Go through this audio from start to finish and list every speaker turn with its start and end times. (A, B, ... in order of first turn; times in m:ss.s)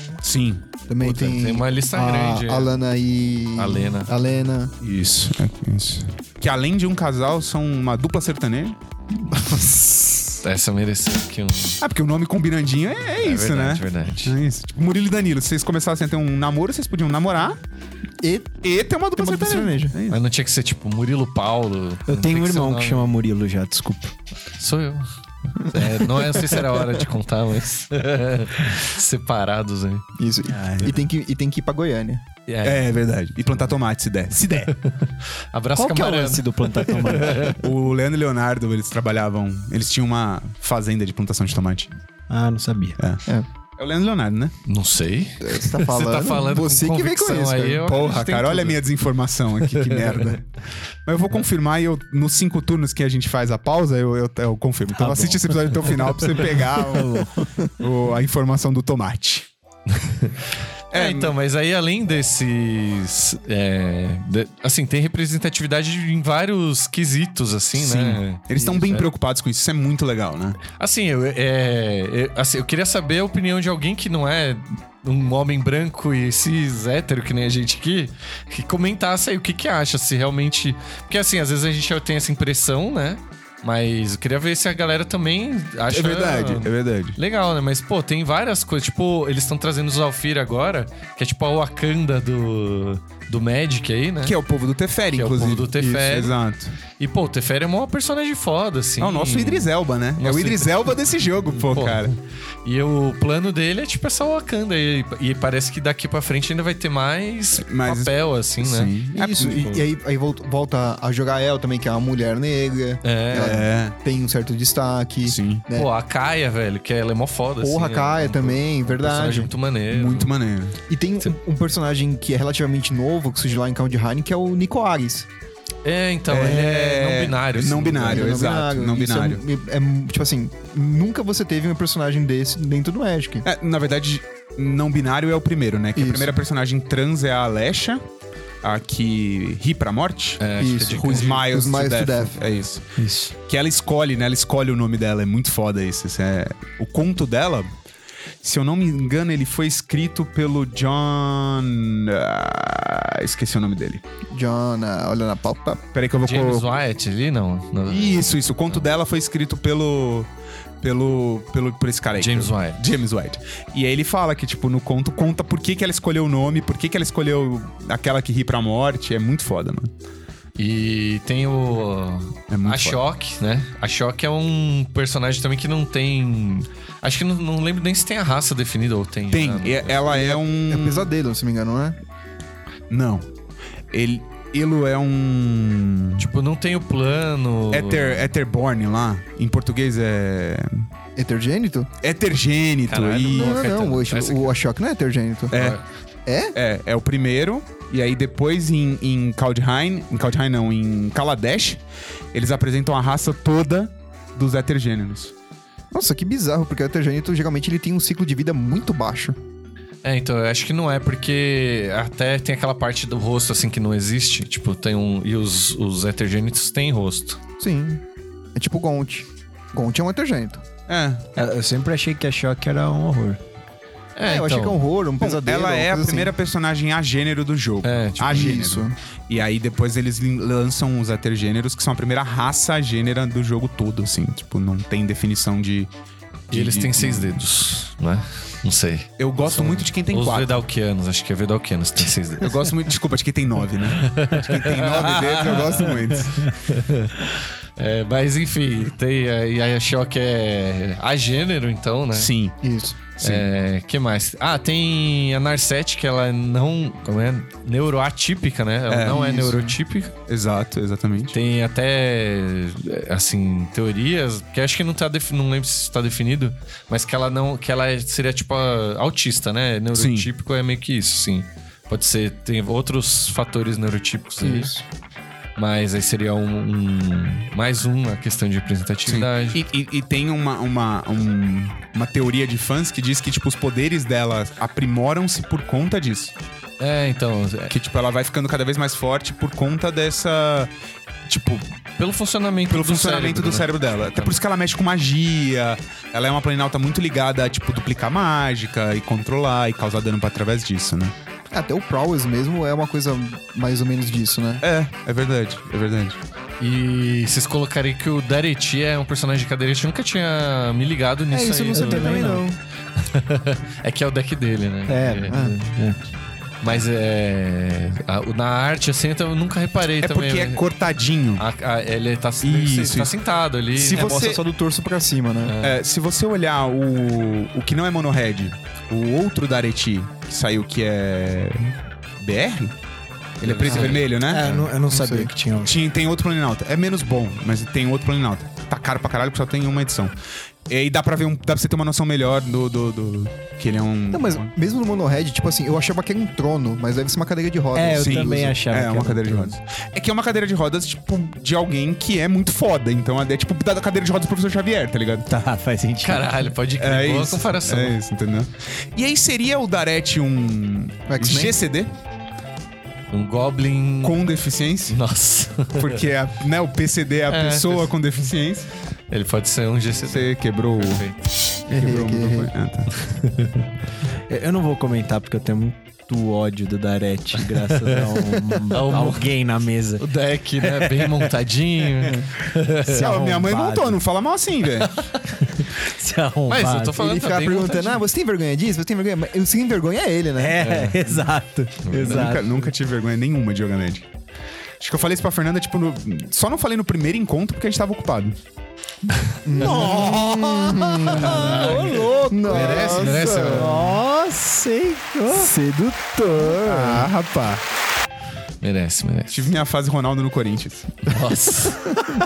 0:00.2-0:00.6 A
0:00.9-0:04.7 B
0:01.0-0:02.8 C
0:03.6-0:04.1 C
0:04.8-0:08.8 A
0:09.3-0:10.4 B
0:10.4-0:11.8 C
0:11.8-0:17.6 A
0:13.2-0:14.3 C
0:18.2-0:18.6 B
0:18.6-0:20.2 A
0:19.2-0:19.9 B
0:20.1-0:23.1 C
0:22.1-0:24.1 D
0:24.6-0:30.0 C
0:30.2-0:32.2 B
0:30.5-0:30.9 D
0:32.5-0:32.9 C
0:32.6-0:34.7 A
0:34.7-0:37.6 C
0:35.8-0:37.5 D
0:37.6-0:41.9 A
0:42.3-0:43.0 D
0:43.0-0:43.2 A
0:43.8-0:44.5 A
0:44.6-0:48.8 C
0:45.4-0:47.9 B
0:47.8-0:50.4 A
0:49.7-0:50.3 C
0:51.0-0:57.3 A
0:55.0-0:57.5 D
0:57.8-0:59.5 A
0:59.9-1:09.1 C
1:00.9-1:01.3 A
1:07.7-1:10.6 A
1:10.8-1:34.4 C
1:25.9-1:27.2 A
1:34.2-1:36.8 A
1:35.1-1:36.3 C
1:37.0-1:48.9 C
1:39.0-1:42.1 A
1:47.6-1:49.8 A
1:49.1-1:55.9 B
1:49.5-1:49.8 C
1:53.0-1:53.6 C
1:53.3-1:54.0 A
1:55.2-1:55.6 A
1:55.7-2:00.3 C
1:57.6-1:59.5 B
1:59.9-2:00.8 A
2:00.9-2:05.3 B
2:05.8-2:08.4 C
2:06.3-2:09.4 A
2:08.0-2:13.4 B
2:13.4-2:18.0 A
2:16.0-2:16.4 B
2:18.6-2:22.8 A
2:20.4-2:21.4 C
2:20.6-2:22.4 B
2:23.0-2:23.3 D
2:23.4-2:27.7 A
2:28.4-2:34.0 A
2:34.3-2:35.8 B
2:35.9-2:36.7 A
2:36.2-2:38.9 C
2:37.9-2:40.3 A
2:40.8-2:49.9 A
2:42.2-2:42.8 C
2:50.6-3:00.0 C
2:52.5-2:53.0 A
2:59.3-3:01.1 A
3:00.1-3:02.0 B
3:02.9-3:03.3 A
3:03.9-3:06.3 A
3:06.2-3:08.3 C
3:07.7-3:10.9 A
3:11.2-3:11.9 B
3:12.0-3:13.6 A
3:12.9-3:14.6 C
3:13.3-3:15.5 B
3:15.5-3:15.8 A
3:15.5-3:15.8 C
3:16.2-3:16.5 B
3:16.5-3:21.8 A
3:22.3-3:25.3 A
3:25.9-3:29.4 B
3:30.0-3:37.4 C
3:37.6-3:38.0 B
3:38.5-3:40.6 B
3:40.9-3:41.2 A
3:41.4-3:43.4 D
3:44.2-3:44.8 C
3:44.2-3:46.3 B
3:45.2-3:55.9 A
3:47.8-3:48.6 C
3:48.2-3:48.9 B
3:56.5-3:57.4 A
3:56.5-4:02.6 C
3:59.2-4:00.6 A
4:02.4-4:06.5 A
4:03.9-4:12.3 C
4:12.1-4:12.6 A
4:12.6-4:13.0 B
4:13.2-4:13.4 A
4:13.2-4:20.1 C
4:18.9-4:19.7 A
4:19.1-4:19.6 B
4:20.3-4:21.4 A
4:21.3-4:34.7 C
4:29.9-4:30.3 A
4:34.4-4:34.8 B
4:35.6-4:39.6 C
4:39.0-4:46.3 A
4:46.8-4:47.7 C
4:47.7-4:50.7 A
4:51.2-4:51.7 A
4:52.0-4:54.4 C
4:52.7-5:01.1 A
5:01.5-5:04.6 B
5:04.6-5:06.2 A
5:06.6-5:12.4 C
5:11.3-5:12.6 B
5:11.7-5:12.4 D
5:13.0-5:15.4 C
5:14.9-5:16.0 D
5:15.3-5:15.5 B
5:16.6-5:20.6 C
5:19.9-5:21.4 A
5:21.4-5:24.2 C
5:22.4-5:23.1 A
5:23.7-5:24.4 A
5:23.9-5:25.5 B
5:25.4-5:25.8 C
5:25.6-5:32.8 A
5:33.4-5:34.6 A
5:33.4-5:34.6 C
5:33.7-5:33.9 B
5:34.2-5:35.7 D
5:34.8-5:35.3 B
5:35.6-5:40.1 A
5:40.7-5:44.5 A
5:44.1-5:48.5 B
5:47.7-5:49.6 D
5:47.9-5:55.3 A
5:55.3-5:56.4 D
5:56.0-5:58.0 C
5:56.8-6:01.9 A
6:01.1-6:01.5 B
6:03.1-6:04.2 C
6:04.0-6:05.0 A
6:04.9-6:06.0 C
6:05.7-6:08.7 A
6:07.3-6:07.9 C
6:09.1-6:11.2 C
6:10.0-6:11.0 A
6:11.6-6:12.9 A
6:11.7-6:12.5 B
6:13.0-6:13.5 C
6:14.3-6:20.0 D
6:17.4-6:19.3 C
6:20.0-6:23.0 C
6:20.6-6:21.3 D
6:22.8-6:24.0 D
6:23.0-6:25.0 A
6:25.4-6:27.0 D
6:26.5-6:28.0 C
6:27.0-6:30.6 B
6:30.4-6:32.7 D
6:30.6-6:31.0 C
6:31.8-6:32.4 C
6:32.0-6:34.1 A
6:34.8-6:38.4 A
6:39.4-6:44.0 B
6:39.6-6:41.8 A
6:39.6-6:46.6 D
6:41.2-6:43.8 C
6:45.3-6:47.0 B
6:46.6-6:47.6 A
6:48.6-6:49.5 C
6:49.3-6:51.2 A
6:51.0-6:52.1 C